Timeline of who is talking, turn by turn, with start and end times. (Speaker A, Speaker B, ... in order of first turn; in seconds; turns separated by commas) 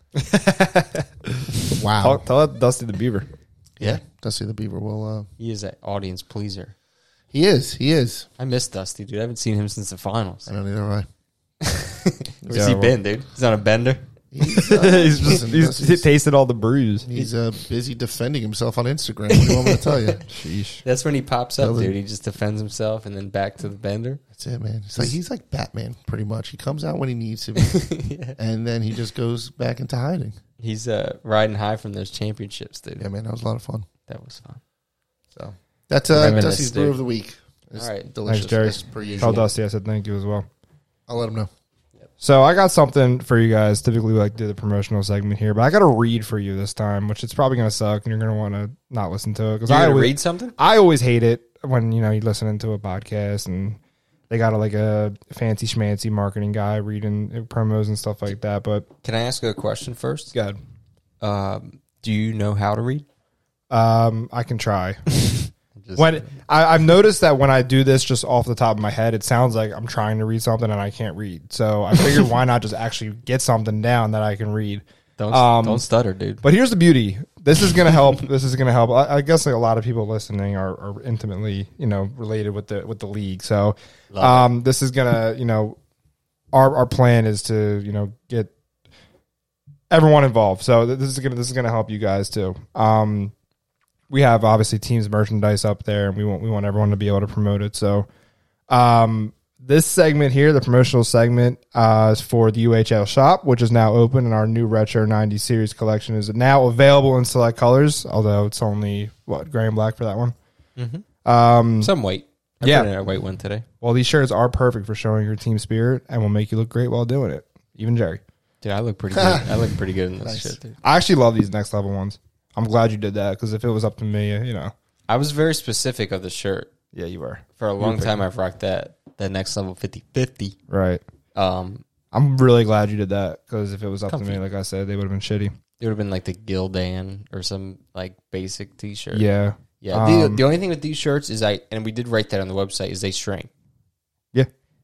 Speaker A: 0.1-3.3, Speaker B: 1.7-2.2, Speaker B: 3.8-5.3, Speaker C: 5.4-6.7, Speaker B: 7.3-8.3, Speaker C: 8.4-10.5, Speaker B: 10.5-11.1, Speaker C: 11.6-14.0, Speaker B: 12.4-12.8, Speaker A: 12.5-12.9, Speaker B: 14.3-16.1, Speaker A: 14.6-17.1, Speaker B: 17.1-20.2, Speaker C: 19.3-20.2, Speaker A: 20.3-20.8, Speaker C: 20.8-24.2, Speaker B: 21.6-21.9, Speaker B: 24.4-30.4, Speaker C: 27.6-28.4, Speaker C: 30.6-33.1, Speaker B: 33.0-33.9, Speaker C: 34.1-34.6, Speaker B: 35.3-39.5, Speaker C: 36.1-37.0, Speaker C: 37.8-38.1, Speaker A: 38.3-40.5, Speaker C: 39.0-39.4, Speaker B: 41.1-41.5, Speaker A: 42.2-53.8, Speaker C: 49.7-50.6, Speaker A: 54.3-58.9, Speaker C: 59.0-60.3, Speaker A: 60.3-60.6, Speaker C: 61.2-63.1, Speaker A: 63.7-65.0, Speaker C: 65.3-66.4, Speaker A: 66.0-75.8, Speaker C: 75.2-76.4, Speaker A: 76.4-85.8, Speaker C: 84.1-84.5, Speaker A: 86.5-88.5, Speaker A: 89.9-93.3, Speaker A: 94.1-98.1, Speaker A: 98.7-110.4, Speaker C: 110.8-111.0, Speaker A: 111.2-111.9, Speaker C: 111.8-113.7, Speaker A: 112.6-112.9, Speaker A: 113.8-118.2, Speaker C: 118.6-120.8, Speaker B: 119.1-120.6, Speaker A: 120.8-124.7, Speaker C: 125.1-126.7, Speaker A: 126.9-128.2, Speaker C: 127.6-130.6, Speaker A: 130.7-131.0, Speaker C: 131.3-131.8, Speaker A: 132.1-135.5, Speaker C: 134.1-134.4, Speaker C: 135.8-139.3, Speaker A: 139.1-140.4, Speaker C: 139.8-143.5